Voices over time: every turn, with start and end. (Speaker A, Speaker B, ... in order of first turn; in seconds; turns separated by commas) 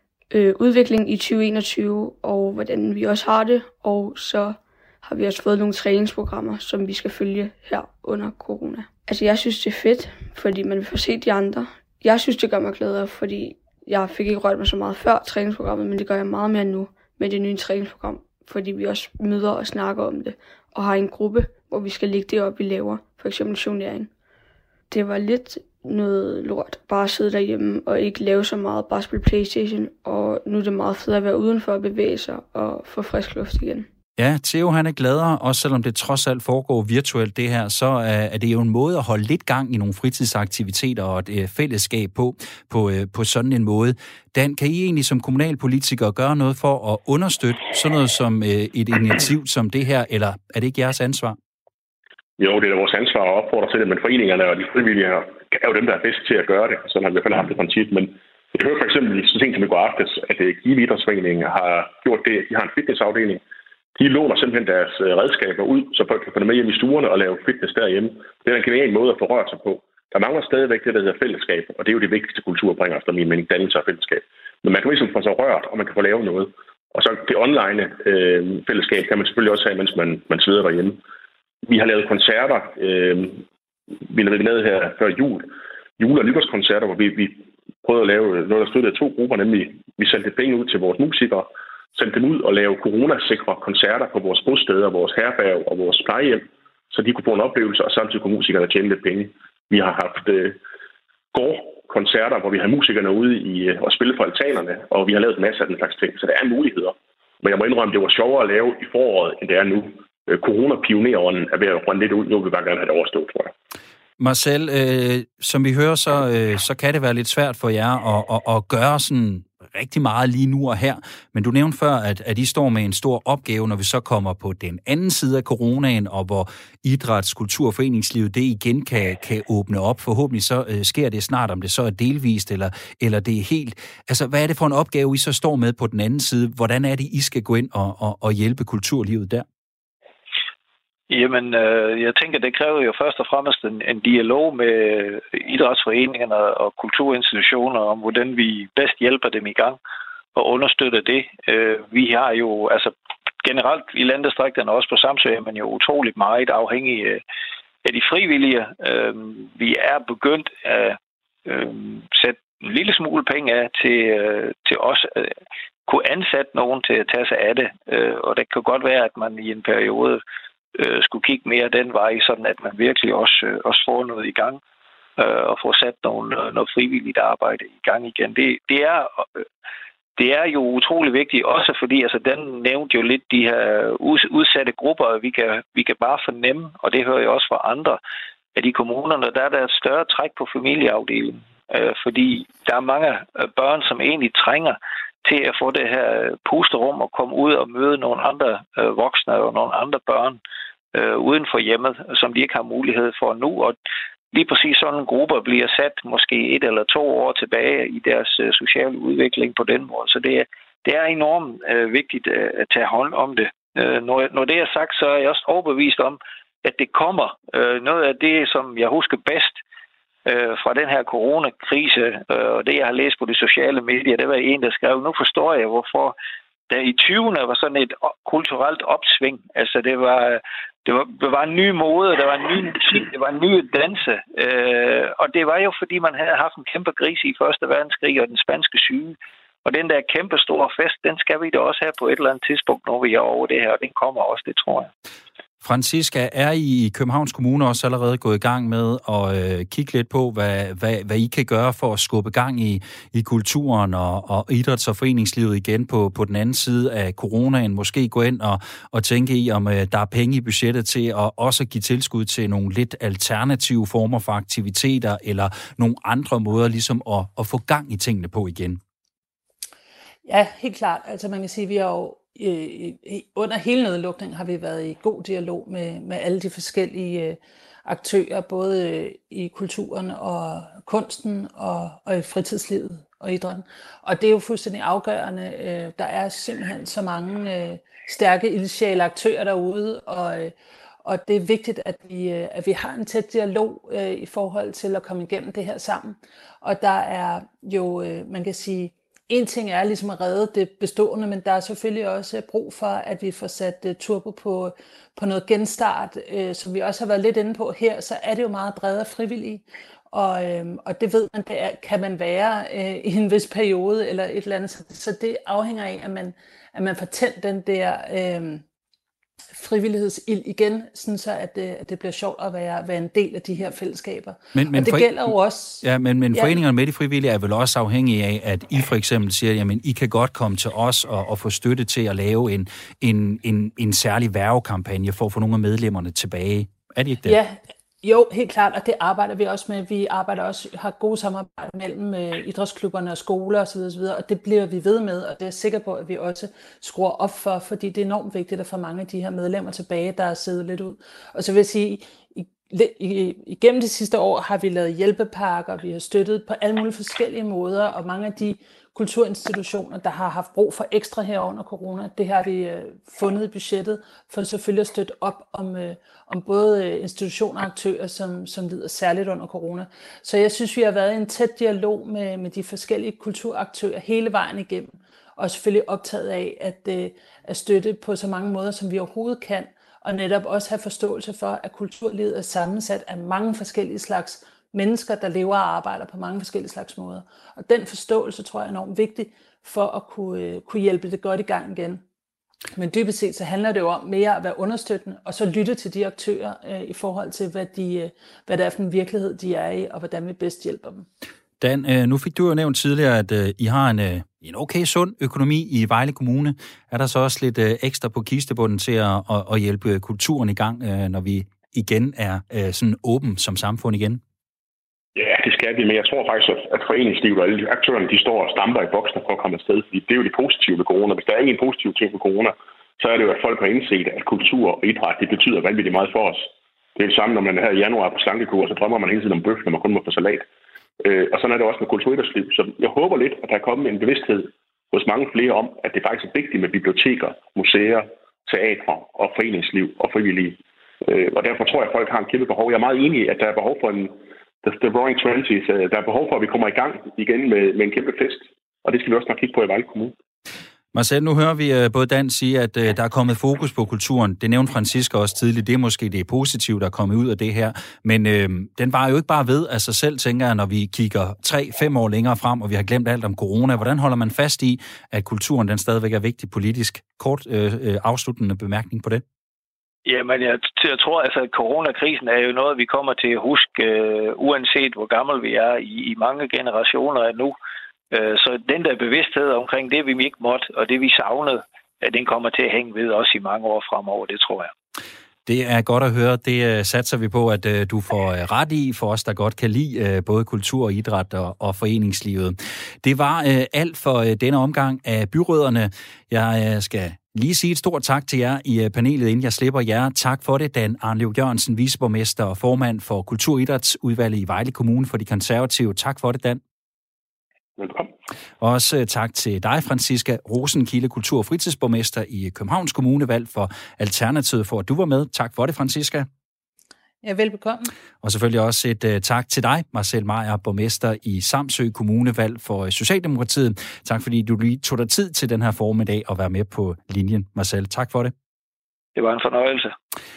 Speaker A: 0.3-24.1, Speaker A: 24.9-33.9, Speaker B: 34.2-51.4, Speaker C: 52.4-63.4, Speaker C: 64.0-81.0, Speaker C: 81.7-83.4, Speaker C: 84.1-100.6, Speaker C: 101.3-113.5, Speaker B: 114.2-139.4, Speaker D: 141.1-149.8, Speaker D: 150.3-152.9, Speaker D: 153.4-157.2, Speaker D: 157.8-165.3, Speaker D: 165.9-170.2, Speaker D: 170.8-174.6, Speaker D: 175.2-179.4, Speaker D: 180.2-188.0, Speaker D: 188.5-200.4, Speaker D: 200.9-203.7, Speaker D: 204.3-219.6, Speaker D: 220.2-226.1, Speaker D: 226.7-244.9, Speaker B: 245.6-268.8, Speaker E: 270.2-290.5, Speaker E: 291.0-318.6, Speaker E: 319.5-326.6, Speaker B: 324.5-337.4, Speaker E: 337.2-392.0, Speaker E: 392.8-401.1, Speaker B: 401.6-414.2, Speaker C: 415.1-430.4, Speaker C: 431.0-450.1, Speaker B: 450.9-469.2, Speaker D: 470.1-477.5, Speaker D: 478.1-484.7, Speaker B: 485.4-506.6, Speaker C: 507.8-508.1, Speaker B: 508.6-516.3, Speaker E: 517.2-517.9, Speaker B: 518.2-528.3, Speaker D: 529.1-529.9